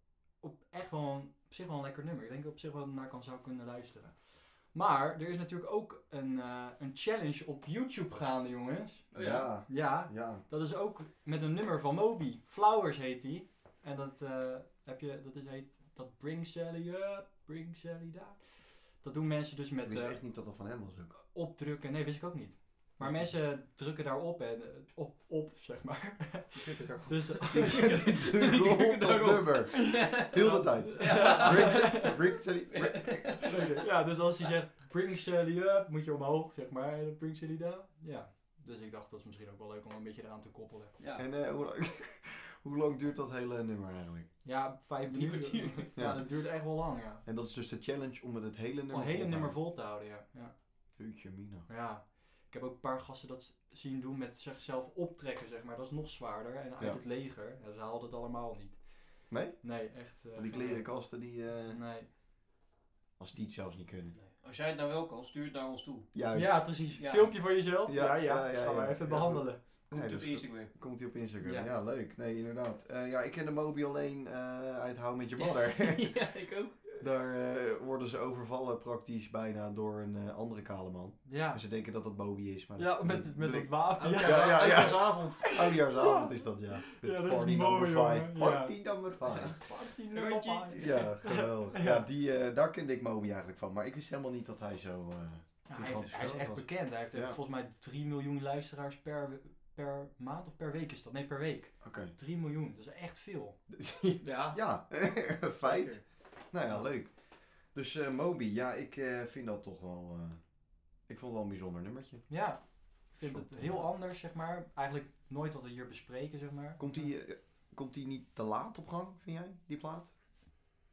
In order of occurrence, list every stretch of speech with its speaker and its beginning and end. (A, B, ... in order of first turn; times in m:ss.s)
0:00.4-0:09.1 A
0:09.1-0:09.5 B
0:09.1-0:10.4 C
0:09.7-0:20.2 A
0:19.8-0:21.1 C
0:21.1-0:28.2 A
0:23.0-0:23.3 C
0:26.6-0:33.6 B
0:27.5-0:33.9 C
0:31.0-0:32.2 A
0:33.8-0:41.0 A
0:41.0-0:41.2 B
0:41.2-0:44.3 C
0:44.4-0:47.2 A
0:45.0-0:45.9 B
0:46.0-0:46.3 C
0:47.2-0:49.6 C
0:48.9-0:50.5 A
0:51.0-0:51.7 C
0:51.7-1:02.1 A
0:59.3-1:01.8 C
1:03.2-1:04.2 C
1:04.2-1:06.1 B
1:06.1-1:06.7 C
1:06.3-1:09.6 A
1:07.0-1:07.3 B
1:07.8-1:16.2 C
1:09.9-1:10.7 B
1:11.4-1:11.7 A
1:15.4-1:17.0 B
1:17.0-1:29.6 C
1:21.2-1:21.6 A
1:22.8-1:32.0 A
1:24.0-1:25.6 B
1:29.3-1:31.1 B
1:30.8-1:37.4 C
1:35.6-1:43.6 A
1:41.8-1:42.1 C
1:43.7-1:52.4 C
1:44.2-1:44.6 B
1:45.6-1:46.0 B
1:52.3-1:57.1 A
1:53.2-1:53.9 C
1:56.8-2:00.1 C